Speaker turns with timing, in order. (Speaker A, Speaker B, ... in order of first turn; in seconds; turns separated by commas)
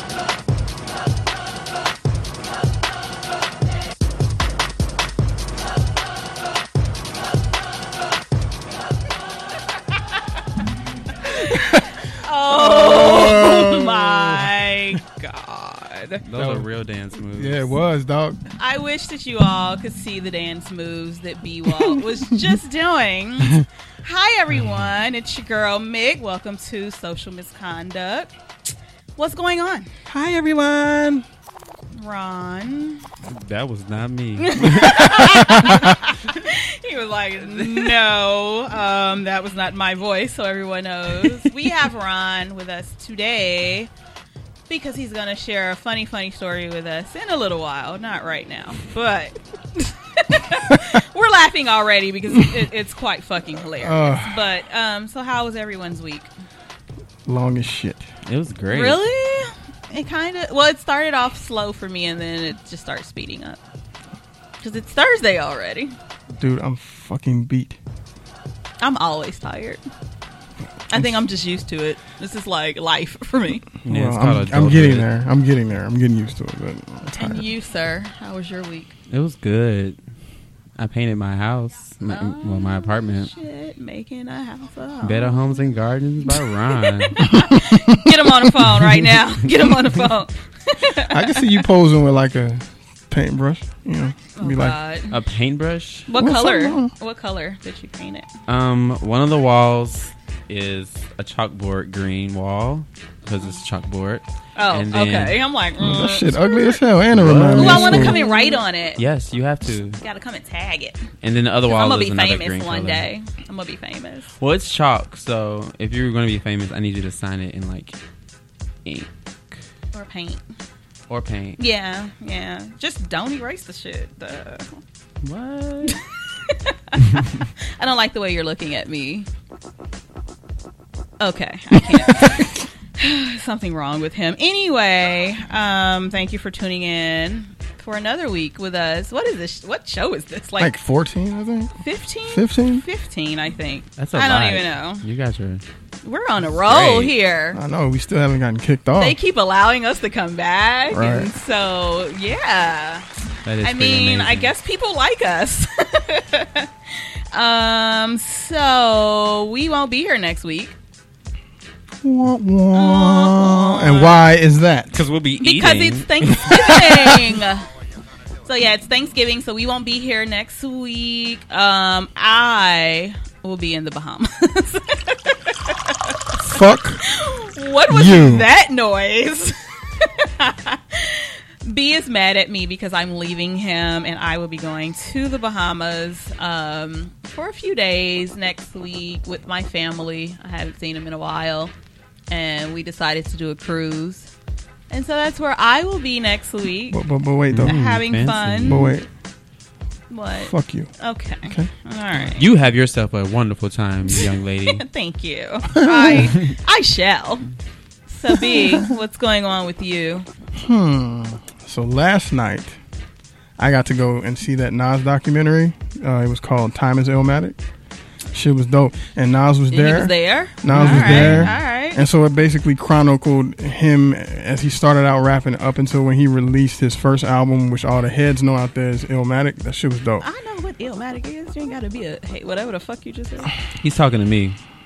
Speaker A: 11.2-16.2, Speaker B: 11.4-11.9, Speaker B: 12.5-14.7, Speaker C: 16.2-17.7, Speaker B: 16.4-16.7, Speaker B: 17.4-18.4, Speaker A: 18.6-28.3, Speaker A: 29.2-29.9, Speaker B: 30.1-31.2, Speaker A: 31.9-33.0, Speaker C: 33.2-35.7, Speaker A: 34.4-43.9, Speaker B: 34.8-35.9, Speaker C: 37.5-37.9, Speaker A: 44.7-56.3, Speaker B: 53.8-54.4, Speaker B: 57.3-58.0, Speaker C: 58.2-59.0, Speaker A: 58.7-63.6, Speaker A: 64.6-65.9, Speaker B: 66.4-67.8, Speaker A: 68.8-69.8, Speaker A: 70.9-73.7, Speaker B: 73.8-77.4, Speaker C: 73.8-75.1, Speaker A: 77.2-78.9, Speaker C: 79.1-80.0, Speaker C: 80.8-83.3, Speaker A: 82.1-85.6, Speaker C: 85.0-87.3, Speaker A: 86.7-91.6, Speaker B: 87.3-89.1, Speaker B: 91.1-94.8, Speaker A: 94.3-95.2, Speaker C: 95.1-96.1, Speaker A: 96.1-98.3, Speaker B: 96.2-96.9, Speaker C: 98.5-105.4, Speaker A: 104.5-106.8, Speaker B: 105.8-108.2, Speaker C: 107.1-108.2, Speaker A: 107.5-109.0, Speaker C: 109.0-110.0, Speaker A: 110.0-111.0, Speaker C: 111.2-113.0, Speaker A: 111.7-114.3, Speaker C: 114.4-118.0, Speaker C: 118.8-119.6, Speaker A: 119.9-120.4, Speaker C: 121.1-121.6, Speaker A: 121.6-124.8, Speaker C: 125.2-126.0, Speaker A: 125.8-129.3, Speaker A: 131.2-140.7, Speaker B: 140.6-141.7, Speaker A: 141.8-145.0, Speaker B: 142.3-142.8, Speaker C: 144.0-145.6, Speaker A: 146.0-147.6, Speaker C: 146.7-147.1, Speaker B: 147.5-149.2, Speaker A: 149.0-153.0, Speaker B: 150.9-151.3, Speaker C: 153.4-154.5, Speaker A: 153.6-156.7, Speaker A: 157.3-160.7, Speaker B: 162.0-164.9, Speaker A: 162.7-164.2, Speaker C: 164.9-167.1, Speaker A: 165.4-167.7, Speaker A: 168.4-176.2, Speaker B: 176.4-177.0, Speaker A: 177.0-191.7, Speaker B: 177.9-178.4, Speaker A: 192.3-194.3, Speaker A: 194.9-197.0, Speaker B: 196.9-197.8, Speaker C: 197.5-198.9, Speaker A: 197.6-198.9, Speaker B: 198.6-199.1, Speaker A: 200.1-202.4, Speaker B: 200.4-200.9, Speaker C: 202.4-204.8, Speaker A: 204.1-207.5, Speaker B: 205.7-206.3, Speaker A: 208.1-210.2, Speaker B: 208.5-208.8, Speaker B: 210.6-212.7, Speaker B: 213.6-217.6, Speaker B: 218.3-230.2, Speaker A: 219.7-222.0, Speaker C: 220.7-221.5, Speaker A: 230.2-233.5, Speaker C: 233.8-234.6